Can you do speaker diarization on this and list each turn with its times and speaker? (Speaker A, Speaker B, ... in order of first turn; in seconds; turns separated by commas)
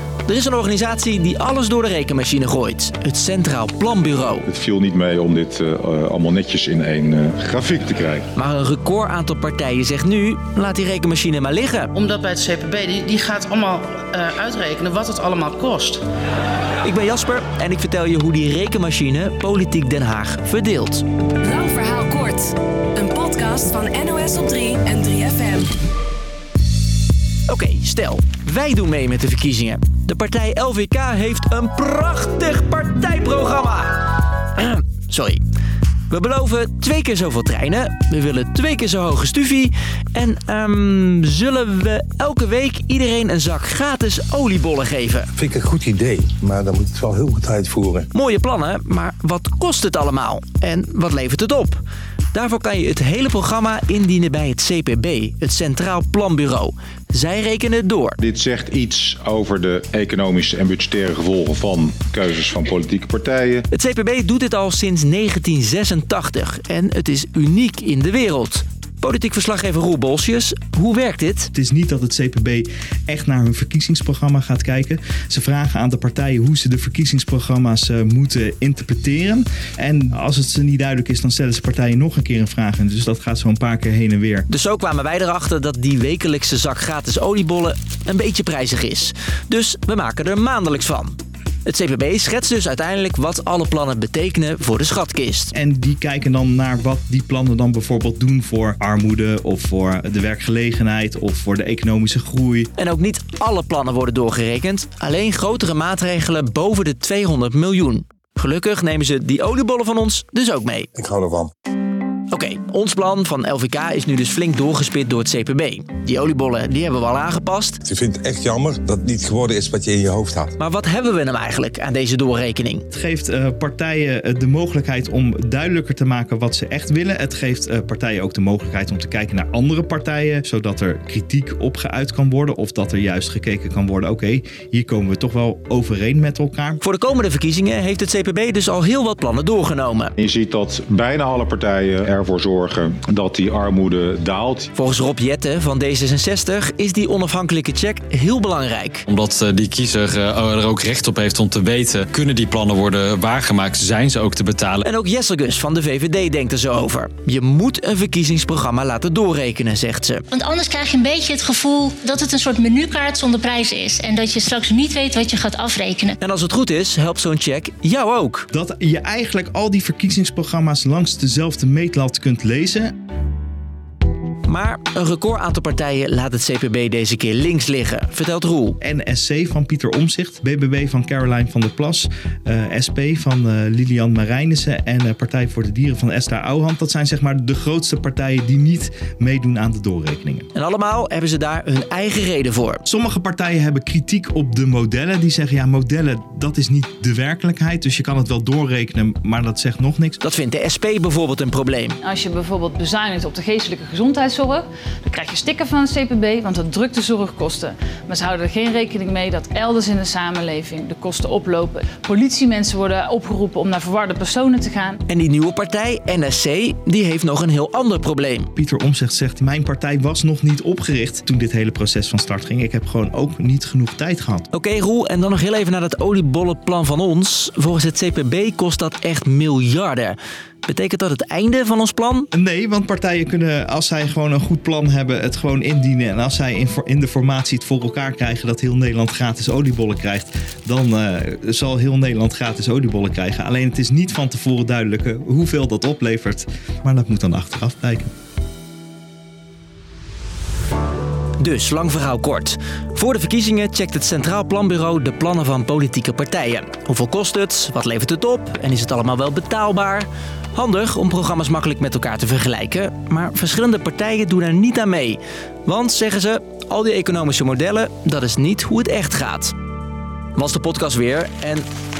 Speaker A: 0.2-4.5, Speaker B: 4.5-8.2, Speaker A: 8.3-11.9, Speaker C: 11.9-16.0, Speaker A: 16.8-21.0, Speaker D: 21.4-25.7, Speaker A: 27.5-35.4, Speaker A: 36.1-45.3, Speaker E: 45.4-48.1, Speaker A: 48.1-51.8, Speaker A: 52.3-58.2, Speaker B: 58.2-63.6, Speaker A: 63.7-71.5, Speaker F: 71.5-84.5, Speaker A: 84.5-95.5, Speaker F: 95.5-102.7, Speaker A: 102.8-110.9, Speaker E: 110.9-111.5, Speaker A: 112.3-117.8, Speaker E: 117.8-120.5, Speaker A: 120.6-122.8, Speaker F: 122.9-136.8, Speaker A: 136.8-140.1, Speaker B: 140.2-144.7, Speaker A: 144.7-149.0, Speaker G: 149.1-154.8, Speaker A: 154.8-160.2, Speaker H: 160.3-166.2, Speaker A: 166.2-168.4, Speaker F: 168.5-172.9, Speaker A: 174.5-178.8, Speaker F: 178.8-190.5, Speaker A: 190.5-192.8, Speaker F: 192.8-200.2, Speaker A: 200.2-202.0, Speaker I: 202.0-215.0, Speaker A: 215.1-218.5, Speaker F: 218.6-224.5, Speaker A: 224.5-232.3, Speaker F: 232.3-248.1, Speaker A: 251.4-269.5, Speaker A: 270.3-271.6